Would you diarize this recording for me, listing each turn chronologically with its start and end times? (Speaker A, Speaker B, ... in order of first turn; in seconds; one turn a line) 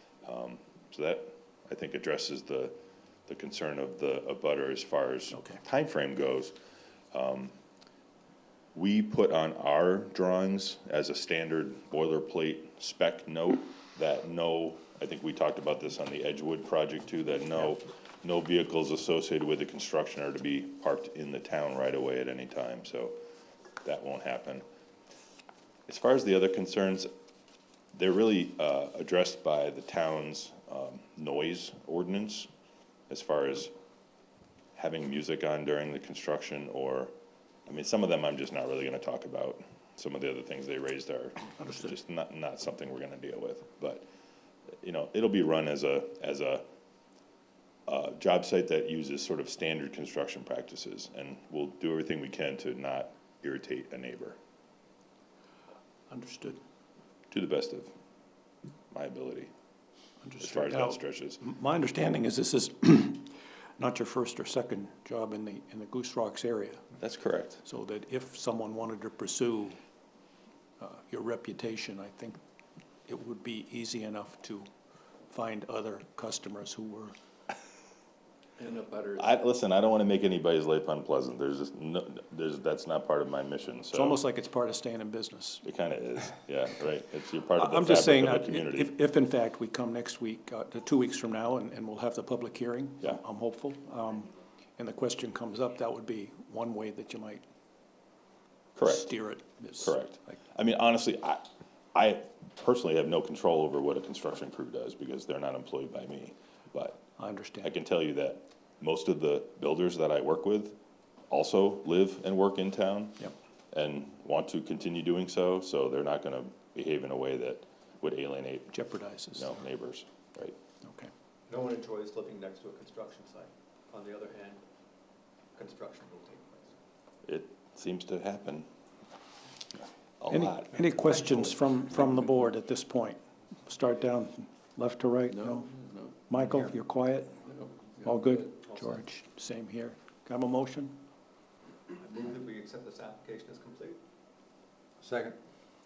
Speaker A: 0.2-2.8
Speaker A: 3.3-6.5
Speaker B: 5.3-5.6
Speaker A: 7.1-7.5
Speaker A: 8.7-23.1
Speaker A: 23.8-24.6
Speaker A: 25.9-27.1
Speaker A: 27.9-32.5
Speaker A: 33.1-33.7
Speaker A: 34.8-37.1
Speaker A: 37.7-44.0
Speaker B: 41.5-41.9
Speaker A: 44.8-46.6
Speaker A: 47.9-54.4
Speaker B: 56.1-56.6
Speaker A: 57.3-57.9
Speaker A: 58.9-59.5
Speaker B: 60.2-66.8
Speaker A: 60.4-61.4
Speaker A: 67.0-67.6
Speaker B: 67.6-69.8
Speaker B: 70.8-72.4
Speaker B: 73.1-74.7
Speaker B: 75.3-77.1
Speaker C: 78.6-79.2
Speaker A: 79.1-84.2
Speaker B: 83.9-85.6
Speaker A: 85.6-88.9
Speaker B: 87.5-97.4
Speaker A: 98.8-99.1
Speaker B: 98.8-100.0
Speaker A: 99.8-107.0
Speaker B: 107.2-107.7
Speaker A: 107.6-110.8
Speaker A: 111.3-118.8
Speaker B: 118.7-119.6
Speaker A: 119.3-120.5
Speaker B: 120.8-121.1
Speaker D: 121.5-124.6
Speaker D: 125.5-126.7
Speaker A: 127.2-128.7
Speaker A: 130.2-131.5
Speaker B: 130.3-135.7
Speaker C: 135.5-136.1
Speaker B: 136.3-137.4
Speaker C: 137.5-138.1
Speaker B: 138.0-141.0
Speaker D: 141.9-144.0
Speaker D: 145.0-145.4